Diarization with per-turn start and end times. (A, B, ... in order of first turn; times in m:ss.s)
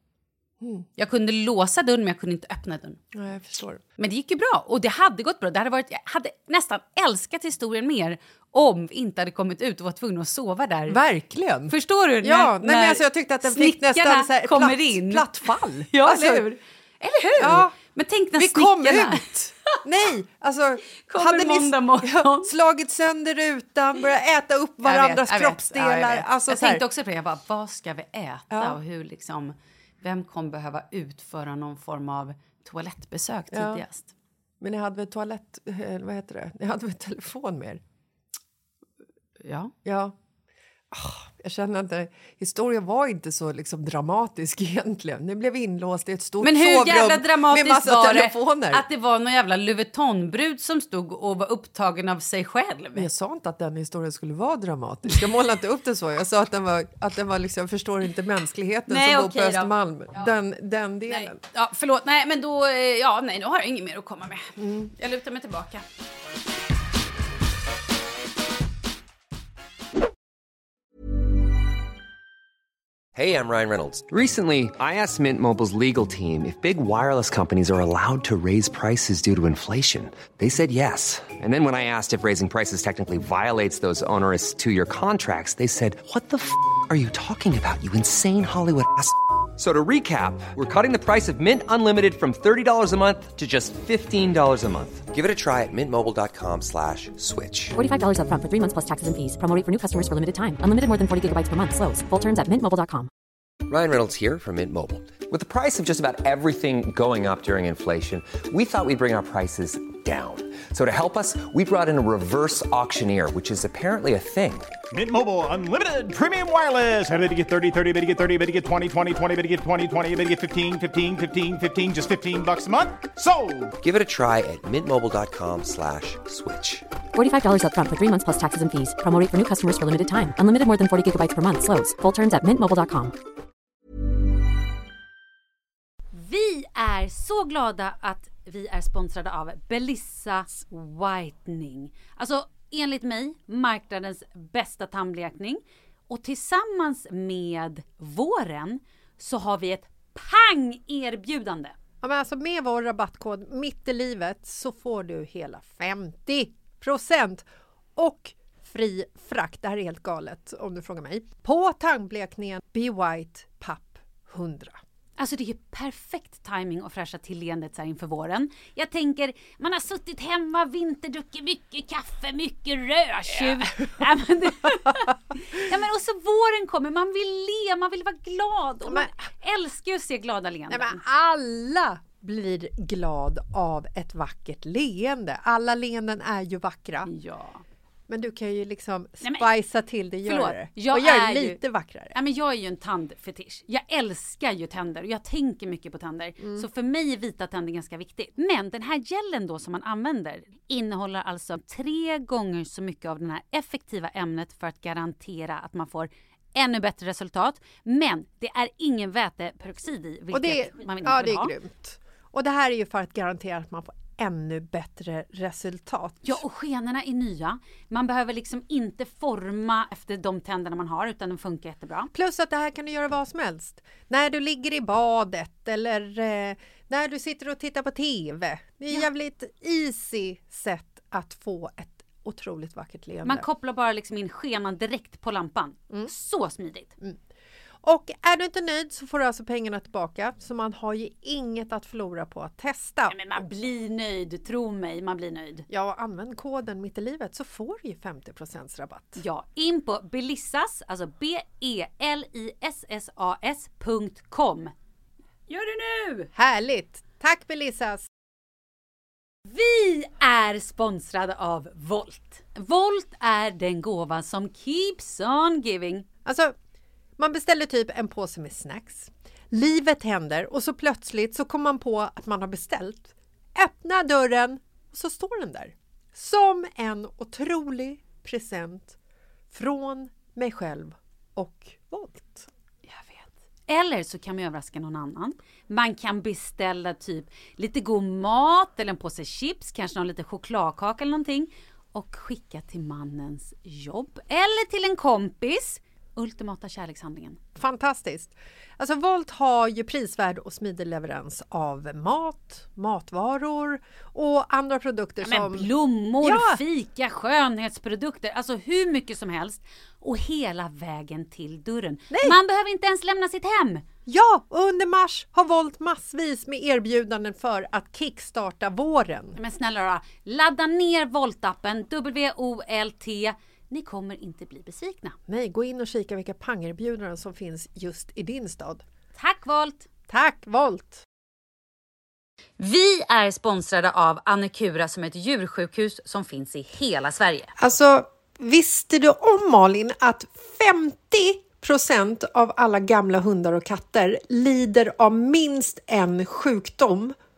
0:00.6-0:00.9 A
0:01.0-0:03.0 B
0:03.1-0:03.8 A
0:04.0-0:11.0 B
0:10.9-0:16.5 A
0:11.7-0:15.3 B
0:15.9-0:19.8 B
0:17.4-0:17.8 A
0:18.4-0:26.8 A
0:21.0-0:22.5 B
0:24.8-0:34.1 B
0:28.5-0:28.8 A
0:33.5-0:33.8 A
0:34.6-0:37.8 A
0:39.4-0:39.7 B
0:39.8-0:40.2 A
0:40.9-0:48.8 A
0:46.4-0:53.1 B
0:53.0-1:01.4 A
0:58.9-1:00.3 B
1:01.1-1:05.8 B
1:04.6-1:04.9 A
1:13.2-1:37.8 C
1:37.7-1:43.1 D
1:43.7-1:54.7 C
1:54.9-2:03.7 E
2:03.8-2:06.8 C
2:07.2-2:13.2 D
2:16.1-2:31.8 B
2:32.0-2:44.8 A
2:45.2-3:01.0 B
2:58.9-2:59.1 A
3:00.7-3:07.1 A
3:07.0-3:07.6 B
3:08.1-3:12.2 A
3:09.2-3:09.5 B
3:10.3-3:11.6 B
3:12.1-3:31.5 B
3:16.4-3:16.7 A
3:30.3-3:36.4 A
3:36.2-3:42.1 B
3:42.1-3:53.5 A
3:53.2-3:56.9 B
3:57.8-4:03.2 A
4:03.1-4:05.7 B
4:05.7-4:09.2 A
4:09.2-4:14.7 B
4:15.5-4:16.3 B
4:16.3-4:18.1 A
4:19.5-4:26.1 B
4:26.2-4:26.5 A
4:27.2-4:39.0 A
4:39.5-4:42.5 A
4:42.9-4:57.4 B
4:57.6-5:06.6 A
5:05.2-5:13.8 B
5:12.1-5:12.4 A
5:14.1-5:19.4 A
5:19.4-5:25.2 B
5:25.3-5:28.8 A
5:29.2-5:29.9 B
5:30.1-5:31.0 A
5:32.6-5:37.5 B
5:37.6-5:47.2 A